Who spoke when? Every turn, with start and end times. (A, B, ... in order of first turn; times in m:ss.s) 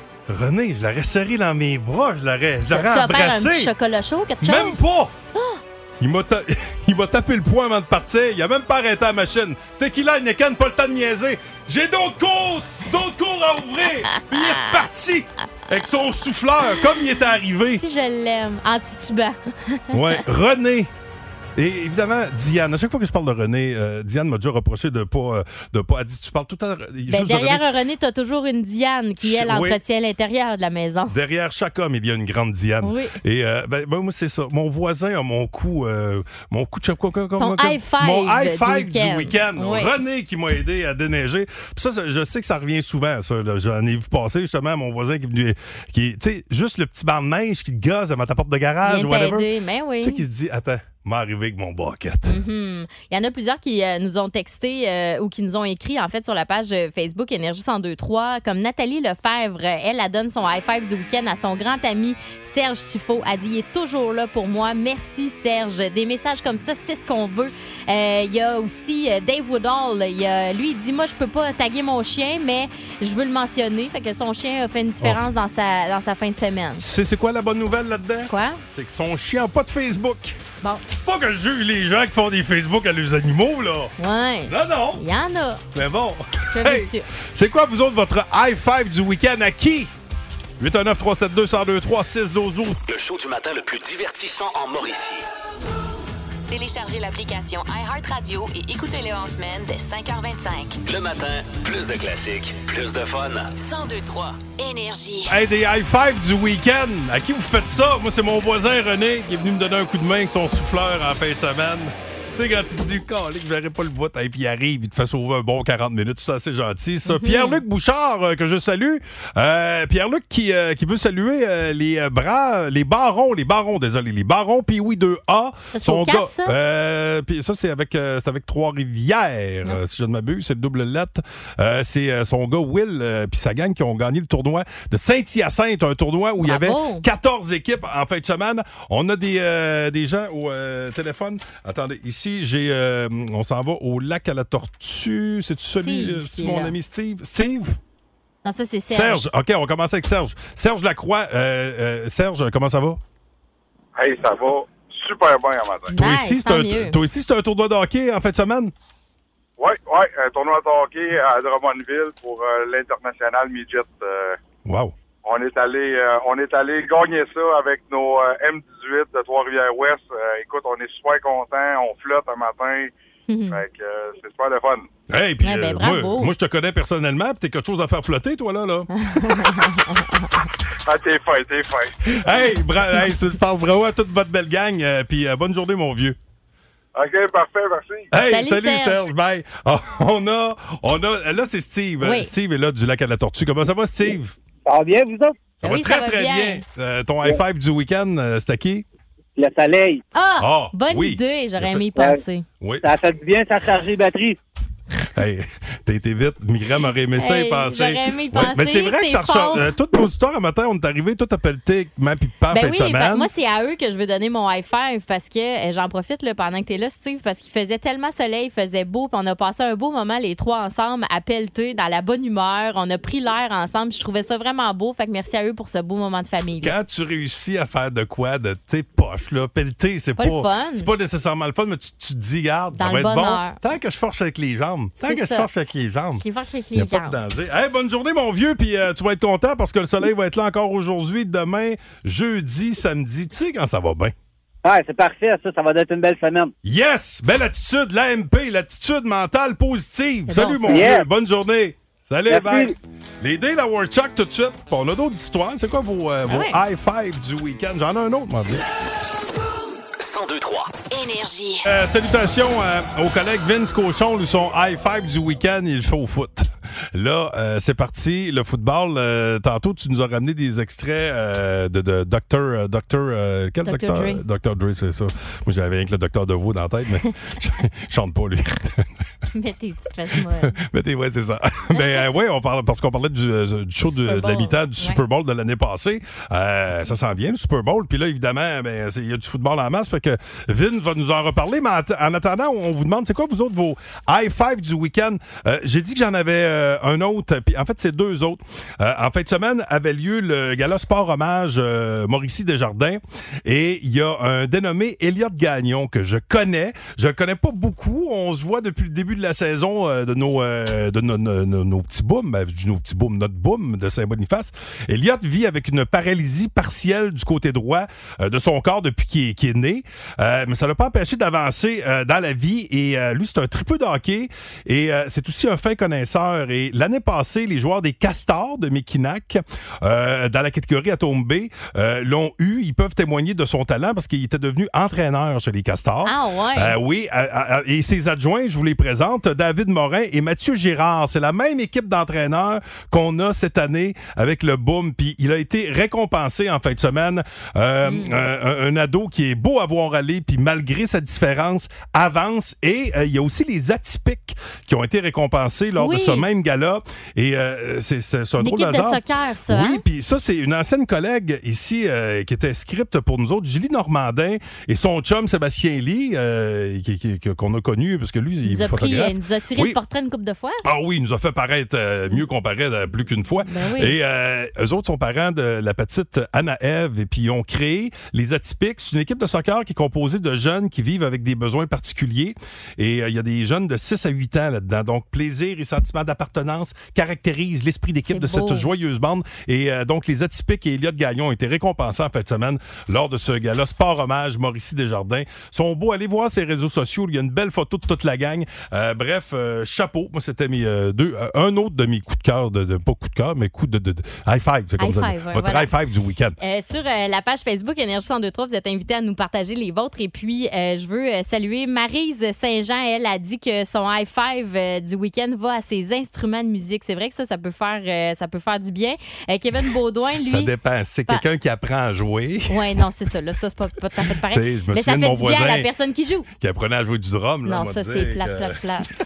0:00.3-0:03.7 A
0:02.7-0:04.8 B
0:04.4-0:05.1 A
0:05.4-0:05.6 B
0:06.0-0:17.8 A
0:14.1-0:14.8 B
0:17.7-0:20.2 B
0:19.9-0:20.9 A
0:21.6-0:27.6 A
0:27.1-0:31.2 B
0:29.2-0:29.8 A
0:31.1-0:49.5 A
0:32.8-0:33.2 B
0:37.4-0:39.9 B
0:48.8-0:50.2 B
0:50.0-0:52.4 A
0:52.3-1:16.8 B
1:16.8-1:20.4 A
1:18.3-1:18.6 B
1:21.0-1:23.9 A
1:24.0-1:25.6 B
1:24.5-1:25.0 A
1:25.7-1:29.9 A
1:26.5-1:27.1 B
1:30.6-1:32.8 A
1:32.9-1:35.3 C
1:36.5-1:40.8 D
1:40.8-1:43.5 C
1:43.6-1:45.3 D
1:45.3-2:27.8 A
1:57.1-1:57.6 B
2:05.7-2:06.5 B
2:16.4-2:17.0 B
2:25.8-2:26.7 B
2:28.4-2:29.2 B
2:28.9-2:33.0 A
2:34.0-2:35.9 E
2:35.9-2:37.0 B
2:36.0-2:38.7 A
2:39.6-2:44.4 E
2:44.7-2:44.9 A
2:45.2-2:52.9 E
2:53.3-2:53.6 B
2:53.5-2:54.9 E
2:55.1-2:58.9 A
2:55.4-2:56.3 B
2:59.0-3:00.3 B
3:00.9-3:01.9 E
3:02.1-3:06.2 A
3:07.0-3:08.1 E
3:08.1-3:14.3 A
3:08.3-3:09.1 B
3:12.0-3:12.3 B
3:14.7-3:15.4 F
3:15.6-3:18.8 A
3:15.6-3:16.6 B
3:19.4-3:20.0 F
3:20.1-3:22.4 B
3:20.4-3:21.9 A
3:22.0-3:22.2 F
3:22.6-3:22.9 A
3:22.8-3:24.4 F
3:25.2-3:33.3 A
3:27.2-3:29.7 B
3:32.5-3:46.7 B
3:46.6-3:56.2 A
3:50.2-3:50.9 B
3:52.8-3:53.6 B
3:55.0-3:55.5 B
3:56.2-3:57.2 B
3:56.8-4:04.1 A
4:04.6-4:06.5 F
4:06.6-4:18.6 A
4:10.3-4:10.9 B
4:10.7-4:11.1 F
4:12.3-4:12.7 F
4:16.3-4:16.6 B
4:20.0-4:20.8 C
4:20.9-4:21.6 D
4:21.6-4:38.9 A
4:33.6-4:34.2 B
4:39.3-4:40.6 B
4:40.4-6:09.8 A
4:43.9-4:45.0 B
5:36.0-5:36.8 B
5:47.8-5:48.3 B
5:55.8-5:56.2 B
5:58.4-5:59.8 B
6:08.4-6:10.6 B
6:10.6-6:46.4 A
6:13.5-6:14.0 B
6:28.1-6:28.7 B
6:44.8-6:45.7 B
6:46.4-7:00.5 B
7:00.2-7:02.8 A
7:02.5-7:06.3 B
7:04.2-7:05.7 A
7:06.4-7:08.6 A
7:07.5-7:08.9 B